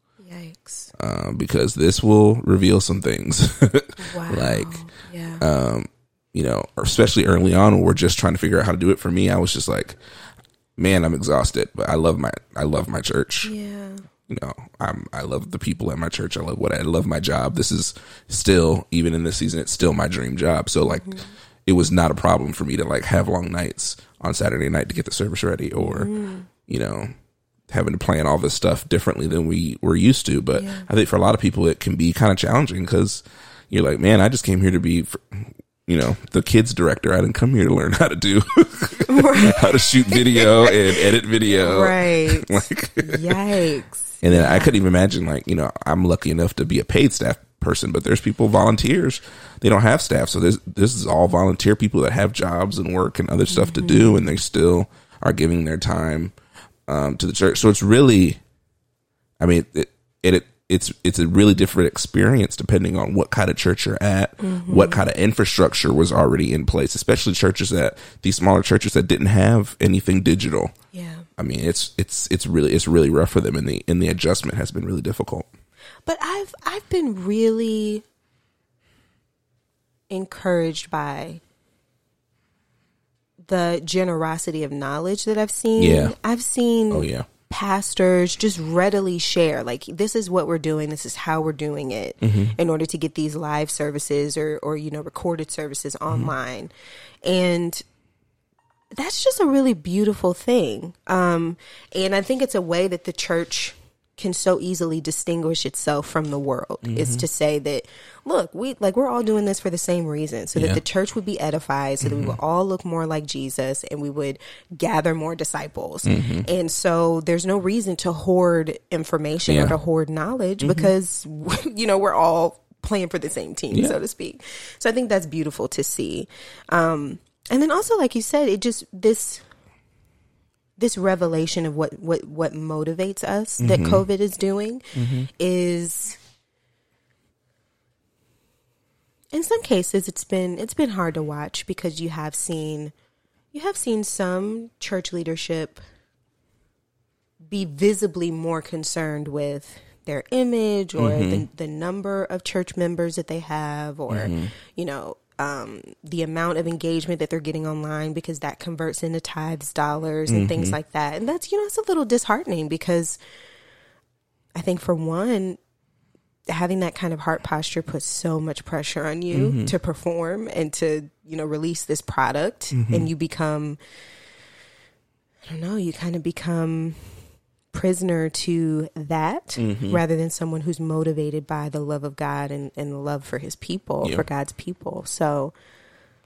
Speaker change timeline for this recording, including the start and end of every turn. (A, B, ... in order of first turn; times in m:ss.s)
0:00.2-0:00.9 A
0:01.0-0:04.8 B
0:04.0-0:05.4 A
0:05.4-0:10.0 B
0:10.8-0:13.5 B
0:13.4-0:14.0 A
0:14.3-0:26.1 B
0:20.9-0:21.3 A
0:25.8-0:26.5 A
0:26.7-0:27.1 B
0:27.7-0:43.4 B
0:30.6-0:30.9 A
0:39.1-0:44.7 A
0:44.2-0:56.3 B
0:53.5-0:54.4 A
0:56.9-0:58.4 B
0:59.4-1:10.7 B
1:04.4-1:05.0 A
1:10.9-1:11.3 A
1:11.4-1:15.5 B
1:16.1-1:18.0 A
1:20.1-1:21.4 A
1:23.5-1:36.7 A
1:25.8-1:26.2 B
1:26.9-1:27.3 B
1:32.2-1:32.6 B
1:37.2-1:37.8 A
1:39.0-2:09.5 A
1:46.8-1:47.2 B
1:50.6-1:50.8 B
1:52.0-1:52.4 B
1:56.1-1:56.5 B
1:59.5-1:59.8 B
2:00.6-2:00.9 B
2:03.7-2:04.0 B
2:10.8-2:16.2 A
2:13.6-2:14.0 B
2:15.0-2:15.3 B
2:19.3-2:22.9 A
2:23.5-2:25.8 A
2:27.5-2:43.2 A
2:31.0-2:31.4 B
2:34.1-2:34.5 B
2:40.3-2:40.8 B
2:44.6-2:45.6 A
2:46.5-2:53.8 A
2:49.3-2:49.7 B
2:52.7-2:53.1 B
2:55.5-3:05.5 A
2:59.6-3:00.0 B